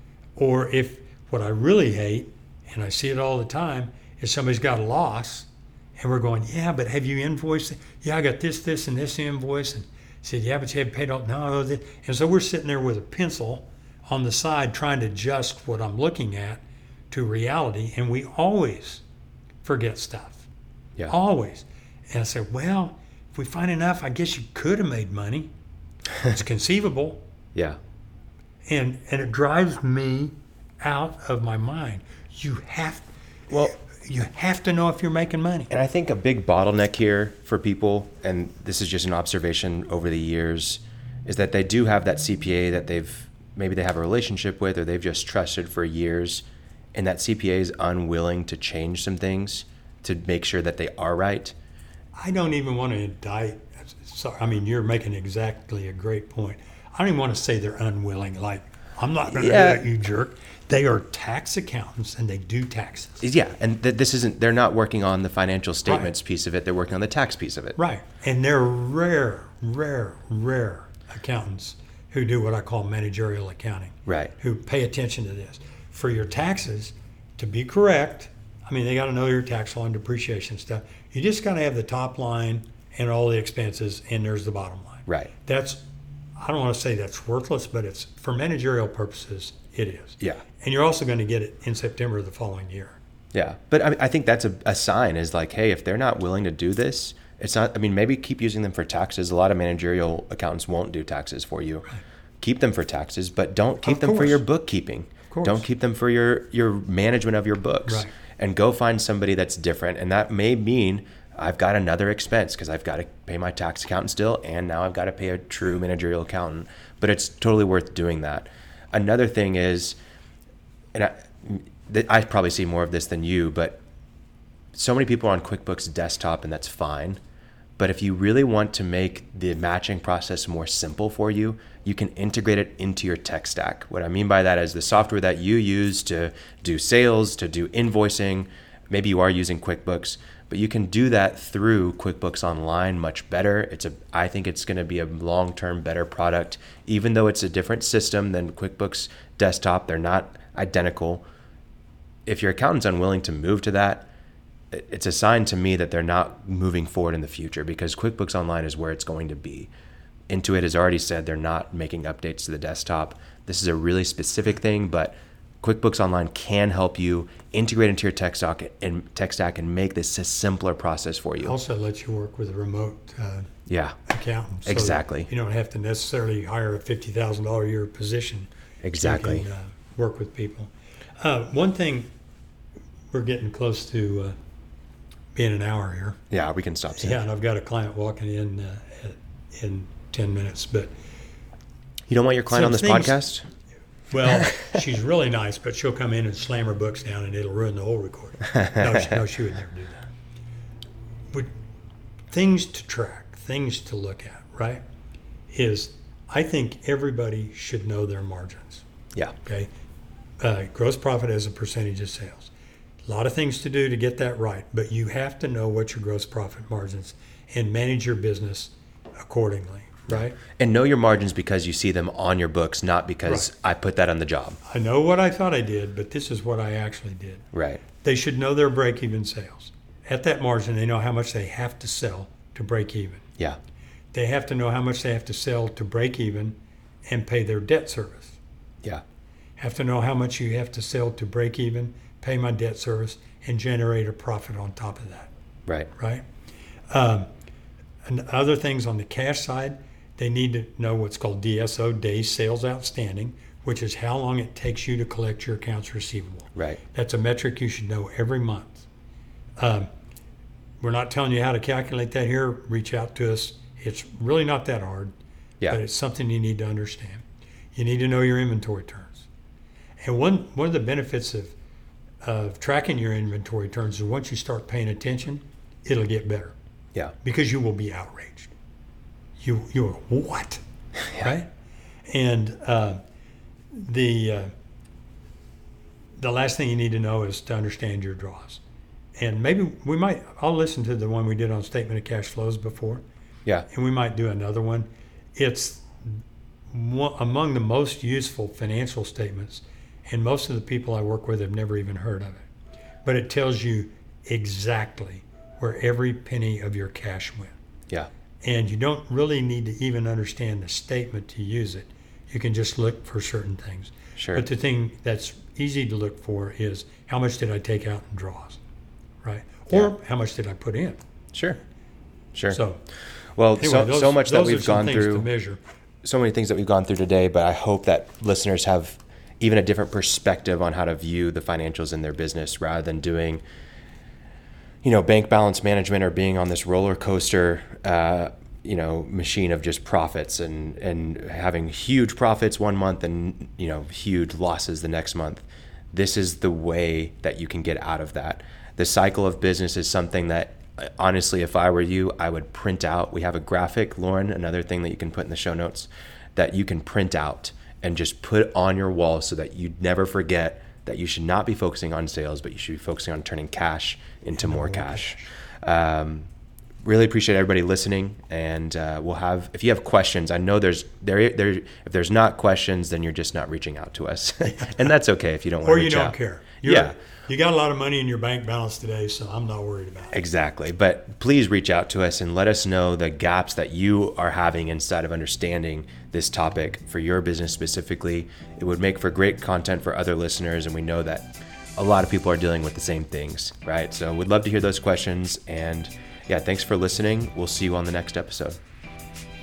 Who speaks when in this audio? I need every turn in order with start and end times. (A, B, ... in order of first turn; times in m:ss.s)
0:00.4-0:05.5 A
0:06.0-0:19.0 A
0:19.6-0:20.5 A
0:21.1-0:25.5 A
0:26.2-0:27.2 A
0:28.7-0:35.7 A
0:35.7-0:51.5 B
0:52.2-1:03.2 A
0:59.3-0:59.8 B
1:03.2-1:07.8 B
1:07.8-1:25.8 A
1:14.1-1:14.3 B
1:25.1-1:25.3 B
1:26.4-1:33.0 A
1:33.3-1:41.9 B
1:42.4-2:00.0 B
1:43.8-1:44.4 A
1:45.3-1:45.6 A
1:47.8-1:48.1 A
2:00.9-2:03.8 B
2:04.7-2:07.2 B
2:07.8-2:31.2 B
2:32.2-2:34.1 B
2:34.7-2:39.7 B
2:40.3-2:51.6 B
2:51.4-2:53.5 A
2:53.7-2:54.0 B
2:54.1-3:02.1 A
2:54.6-2:55.3 B
2:58.8-2:59.4 B
3:03.1-3:04.3 A
3:05.3-3:06.2 A
3:06.3-3:07.2 B
3:07.0-3:10.9 A
3:12.1-3:13.4 B
3:12.5-3:13.2 A
3:14.1-3:20.0 A
3:18.6-3:19.0 B
3:22.3-3:24.8 A
3:25.5-3:28.8 A
3:29.4-3:29.7 A
3:30.4-3:32.5 A
3:33.0-3:40.4 A
3:40.1-3:44.6 B
3:44.6-3:47.4 A
3:47.5-3:47.8 B
3:48.0-3:53.2 A
3:54.1-3:56.6 A
3:57.1-3:58.4 A
3:59.6-4:05.3 A
4:06.0-4:06.2 A
4:06.9-4:07.3 A
4:08.0-4:18.8 A
4:19.6-4:19.9 A
4:20.8-4:25.1 A
4:25.7-4:27.2 A
4:27.7-4:29.3 A
4:30.0-4:31.5 A
4:32.2-4:36.5 A
4:37.2-4:38.5 A
4:39.4-4:40.6 A
4:41.2-4:41.5 A
4:42.1-4:43.0 A
4:43.7-4:44.5 A
4:46.2-4:48.6 A
4:49.2-4:53.0 A
4:53.7-5:02.5 A
5:03.0-5:07.6 A
5:08.4-5:18.6 A
5:14.2-5:14.4 B
5:19.2-5:21.0 A
5:21.3-5:21.6 B
5:22.3-5:22.6 B
5:22.5-5:22.8 A
5:23.4-5:25.3 B
5:23.6-5:25.6 A
5:26.0-5:33.4 B
5:34.8-6:06.3 B
6:04.4-6:05.2 A
6:06.8-6:16.9 B
6:15.6-6:20.2 A
6:20.1-6:38.6 B